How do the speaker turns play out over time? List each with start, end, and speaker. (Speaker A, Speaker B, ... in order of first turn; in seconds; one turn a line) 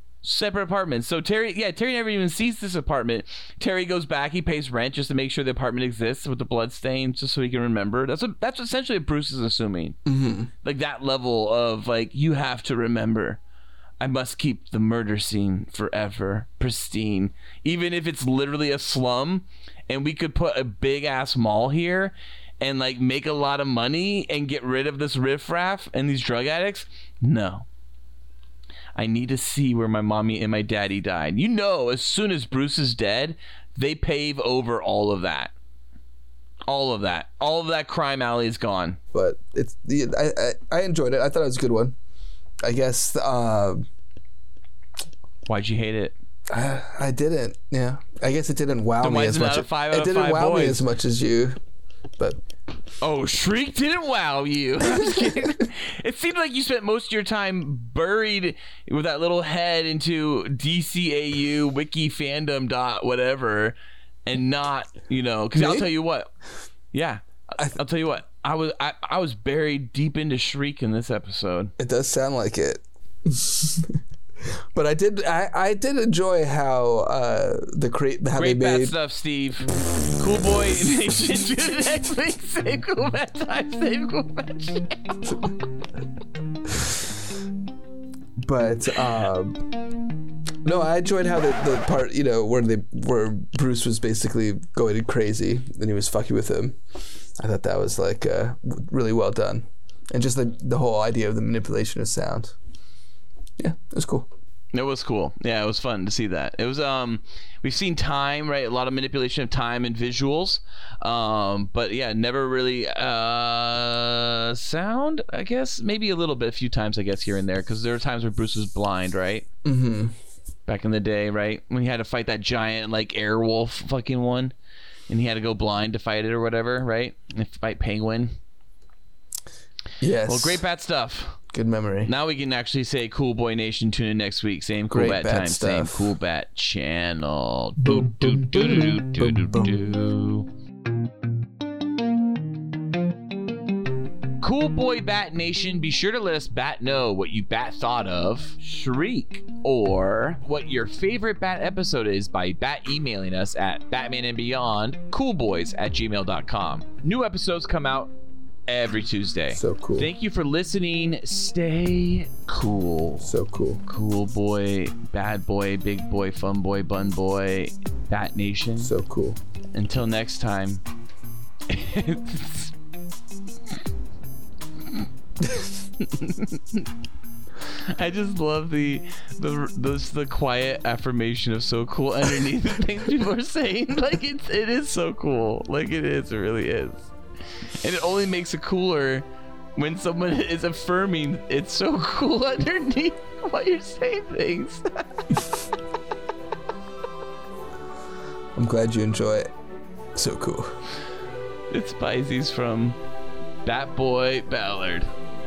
Speaker A: 0.2-10.0
Speaker B: 10.1-10.5
Speaker A: 10.6-13.4
Speaker A: 14.0-27.6
Speaker A: 28.9-35.5
Speaker A: 36.7-39.0
Speaker B: 39.1-42.0
Speaker B: 42.6-43.8
Speaker A: 45.5-46.1
Speaker B: 46.5-51.6
Speaker A: 49.0-50.9
Speaker A: 53.0-66.3
Speaker B: 65.5-65.9
Speaker A: 66.9-71.7
Speaker B: 71.8-74.0
Speaker B: 74.7-78.9
Speaker A: 78.3-85.5
Speaker B: 86.7-87.0
Speaker B: 88.4-89.6
Speaker B: 90.6-96.8
Speaker B: 97.4-102.5
Speaker B: 103.6-104.3
Speaker A: 104.7-119.5
Speaker B: 119.6-120.2
Speaker A: 120.7-124.5
Speaker A: 125.1-128.3
Speaker B: 130.0-130.6
Speaker A: 130.3-131.4
Speaker B: 131.5-132.1
Speaker A: 132.1-140.5
Speaker B: 134.9-136.1
Speaker B: 137.8-139.8
Speaker A: 144.4-158.1
Speaker A: 158.7-163.3
Speaker B: 159.5-160.1
Speaker B: 163.2-163.8
Speaker A: 163.8-168.9
Speaker B: 168.8-169.4
Speaker A: 169.7-170.8
Speaker A: 171.7-172.7
Speaker A: 176.0-176.9
Speaker A: 177.8-187.1
Speaker A: 187.8-194.8
Speaker B: 198.6-199.5
Speaker B: 200.1-200.7
Speaker A: 201.7-203.0
Speaker A: 203.6-205.1